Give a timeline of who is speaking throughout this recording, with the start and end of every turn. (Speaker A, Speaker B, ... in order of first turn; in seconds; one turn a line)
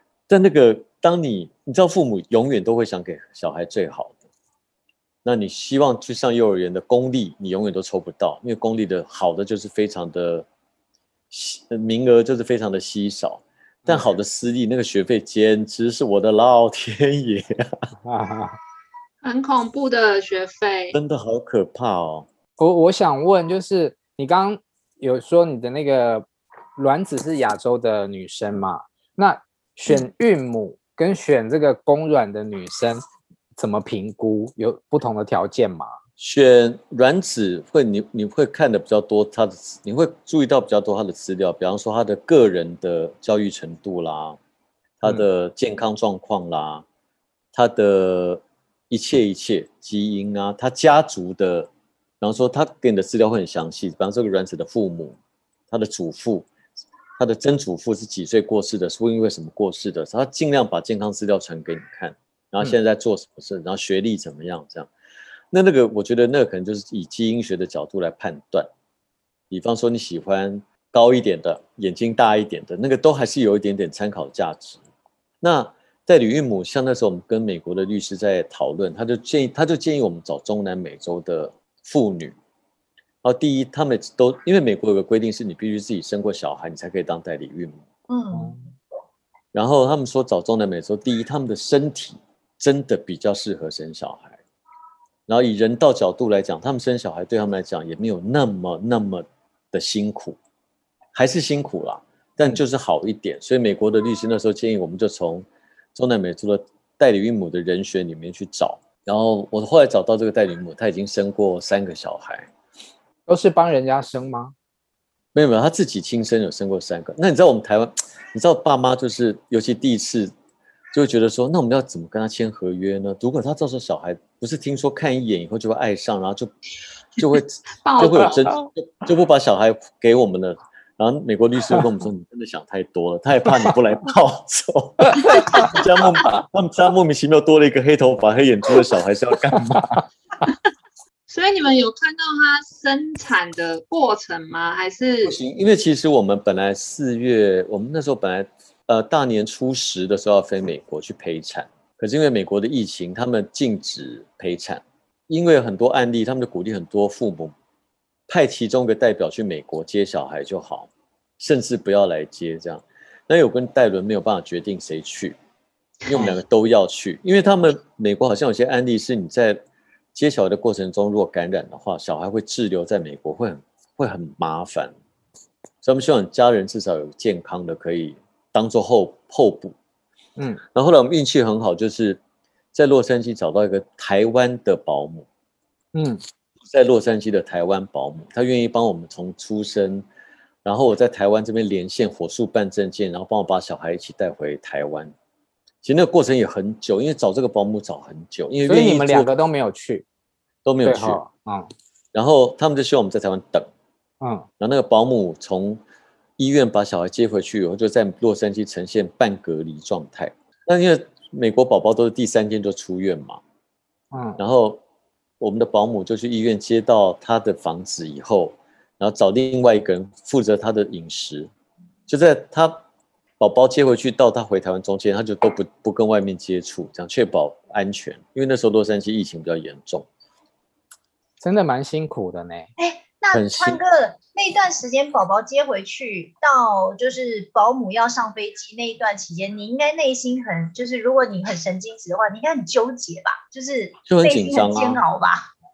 Speaker A: 0.3-4.2
Speaker A: 5.2-10.4
Speaker A: 11.3-17.8
Speaker B: 18.0-18.6
Speaker C: 19.2-21.0
Speaker A: 20.9-22.3
Speaker B: 22.6-33.0
Speaker B: 33.5-35.9
Speaker A: 36.2-44.4
Speaker A: 45.0-46.8
Speaker A: 47.5-51.7
Speaker A: 52.2-55.2
Speaker A: 55.7-56.5
Speaker A: 57.2-64.9
Speaker A: 65.5-68.7
Speaker A: 69.5-74.8
Speaker A: 75.4-82.3
Speaker A: 83.2-87.8
Speaker D: 88.1-88.6
Speaker B: 88.3-88.6
Speaker A: 89.5-94.4
Speaker A: 95.3-100.4
Speaker A: 101.1-112.5
Speaker B: 113.3-114.5
Speaker A: 115.3-120.3
Speaker A: 120.9-126.5
Speaker A: 127.2-140.0
Speaker C: 127.8-128.6
Speaker B: 135.2-135.7
Speaker C: 141.3-145.3
Speaker A: 145.2-157.5
Speaker A: 158.3-165.4
Speaker A: 166.1-169.6
Speaker A: 170.1-174.9
Speaker A: 175.8-179.8
Speaker A: 180.7-182.2
Speaker A: 182.7-185.3
Speaker B: 185.9-186.2
Speaker A: 186.6-190.1
Speaker A: 190.6-195.1
Speaker A: 195.8-199.3
Speaker B: 198.6-200.0
Speaker A: 200.6-201.2
Speaker B: 200.8-201.7
Speaker A: 202.1-203.7
Speaker B: 204.2-204.4
Speaker A: 204.6-205.8
Speaker A: 206.4-213.4
Speaker B: 214.1-214.4
Speaker A: 214.4-214.8
Speaker A: 215.4-221.5
Speaker A: 222.1-222.8
Speaker A: 223.4-230.1
Speaker B: 231.4-232.7
Speaker D: 232.8-245.5
Speaker A: 233.3-233.8
Speaker A: 244.1-245.0